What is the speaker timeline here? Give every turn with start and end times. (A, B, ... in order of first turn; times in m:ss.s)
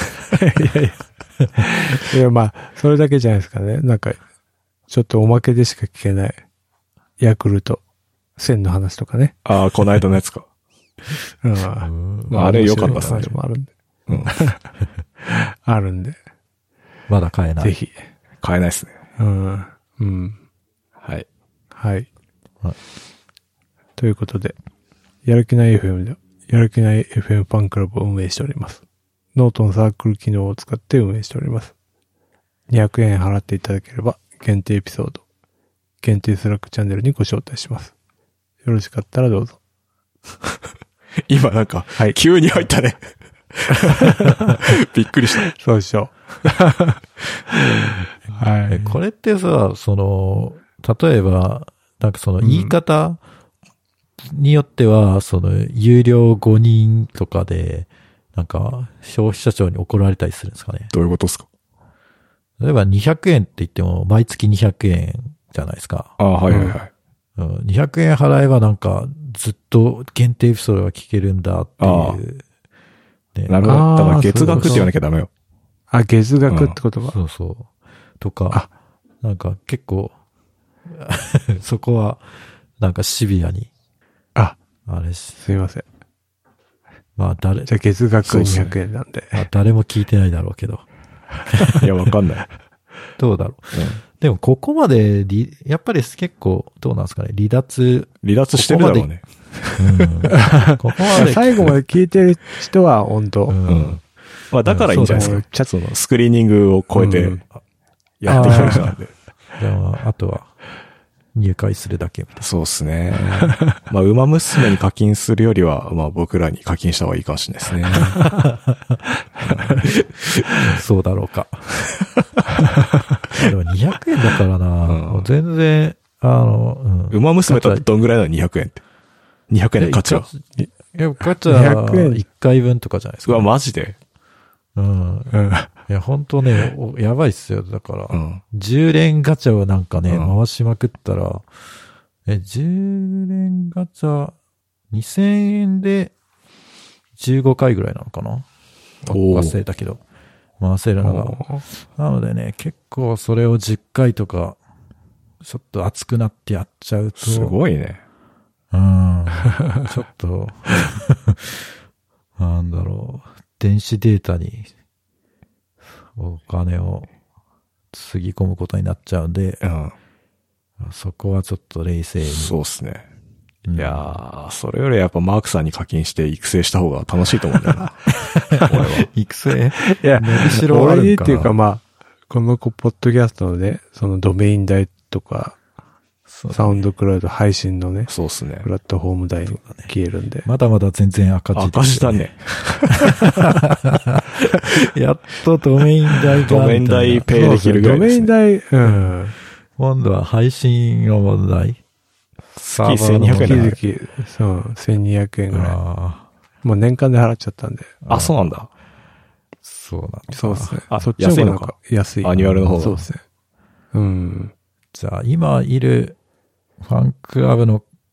0:00.3-0:01.0 A
0:01.6-0:04.2 A
0:04.9-0:06.4 A
0:07.2-0:07.8 A
0:08.4-0:09.3 A
0:09.4-0:10.4 B
0:11.4-0:13.7 A
0:11.8-0:13.3 C
0:12.3-0:13.3 B
0:14.1-0:14.4 B
0:14.2-0:14.6 A
0:15.2-0:16.2 A
0:17.1-0:17.7 C
0:17.6-0:17.9 A
0:18.4-0:19.0 B
0:19.2-0:20.4 A
0:21.8-0:22.1 A
0:24.0-0:24.6 A
0:25.2-0:28.8 A
0:29.3-0:31.7 A
0:32.7-0:35.2 A
0:36.0-0:37.9 A
0:38.6-0:39.6 A
0:41.2-0:45.5 B
0:45.5-0:47.0 A
0:48.3-0:53.2 C
0:48.3-0:49.0 A
0:52.4-0:52.8 A
0:54.2-1:00.9 C
1:00.9-1:01.4 B
1:02.6-1:06.8 C
1:06.2-1:06.9 B
1:07.4-1:12.4 C
1:11.8-1:12.2 B
1:13.3-1:13.8 C
1:13.5-1:15.3 B
1:13.6-1:14.9 A
1:14.4-1:14.9 C
1:15.9-1:17.1 A
1:16.5-1:16.8 B
1:17.1-1:18.6 C
1:19.2-1:20.1 C
1:20.9-1:22.2 C
1:22.8-1:23.7 C
1:24.8-1:25.4 C
1:25.4-1:25.8 A
1:27.2-1:27.7 C
1:27.7-1:29.4 A
1:28.2-1:28.7 C
1:28.3-1:28.6 B
1:29.3-1:30.8 C
1:31.6-1:31.8 C
1:31.7-1:32.5 B
1:33.2-1:39.1 C
1:33.7-1:34.0 B
1:38.2-1:40.1 B
1:39.8-1:41.8 C
1:40.4-1:43.6 A
1:43.5-1:44.0 C
1:43.6-1:47.4 B
1:44.6-1:45.4 C
1:44.9-1:45.7 A
1:47.0-1:47.4 A
1:48.2-1:49.1 B
1:48.3-1:48.9 C
1:48.3-1:48.9 A
1:49.6-1:50.5 C
1:51.3-1:52.4 C
1:52.4-1:58.2 B
1:57.9-1:59.0 C
1:59.4-2:00.4 B
1:59.5-1:59.9 C
2:00.6-2:01.9 C
2:03.3-2:07.8 C
2:04.8-2:05.3 B
2:07.1-2:08.8 B
2:09.5-2:10.3 B
2:09.8-2:13.5 C
2:11.4-2:12.2 A
2:13.2-2:14.0 B
2:14.8-2:21.4 C
2:15.3-2:15.7 A
2:18.1-2:18.4 B
2:20.1-2:20.3 B
2:22.2-2:24.4 C
2:24.9-2:26.1 C
2:27.2-2:28.4 C
2:29.0-2:30.0 C
2:29.1-2:29.6 B
2:30.6-2:34.6 C
2:31.0-2:31.6 A
2:35.4-2:37.6 C
2:37.2-2:38.0 B
2:38.7-2:41.7 C
2:42.4-2:44.7 C
2:46.1-2:47.1 C
2:47.9-2:49.6 C
2:49.6-2:49.9 B
2:50.8-2:52.5 C
2:52.2-2:53.1 B
2:53.6-2:54.1 C
2:53.8-2:58.1 B
2:58.5-3:01.5 C
2:58.6-2:59.1 B
2:59.8-3:05.6 A
3:06.3-3:06.8 C
3:06.5-3:08.1 A
3:08.1-3:08.6 B
3:08.6-3:10.5 A
3:09.6-3:09.9 C
3:10.4-3:12.3 C
3:11.5-3:13.2 B
3:12.9-3:17.2 C
3:16.4-3:18.3 B
3:17.3-3:19.3 A
3:18.8-3:19.2 C
3:19.8-3:21.8 C
3:22.6-3:23.8 C
3:22.6-3:23.8 B
3:23.2-3:25.8 A
3:25.5-3:26.3 C
3:26.6-3:28.0 A
3:28.0-3:28.5 C
3:28.1-3:28.7 B
3:29.6-3:30.9 C
3:30.3-3:33.2 A
3:30.9-3:33.0 B
3:32.4-3:32.8 C
3:33.9-3:34.5 A
3:34.9-3:36.2 C
3:36.8-3:37.8 C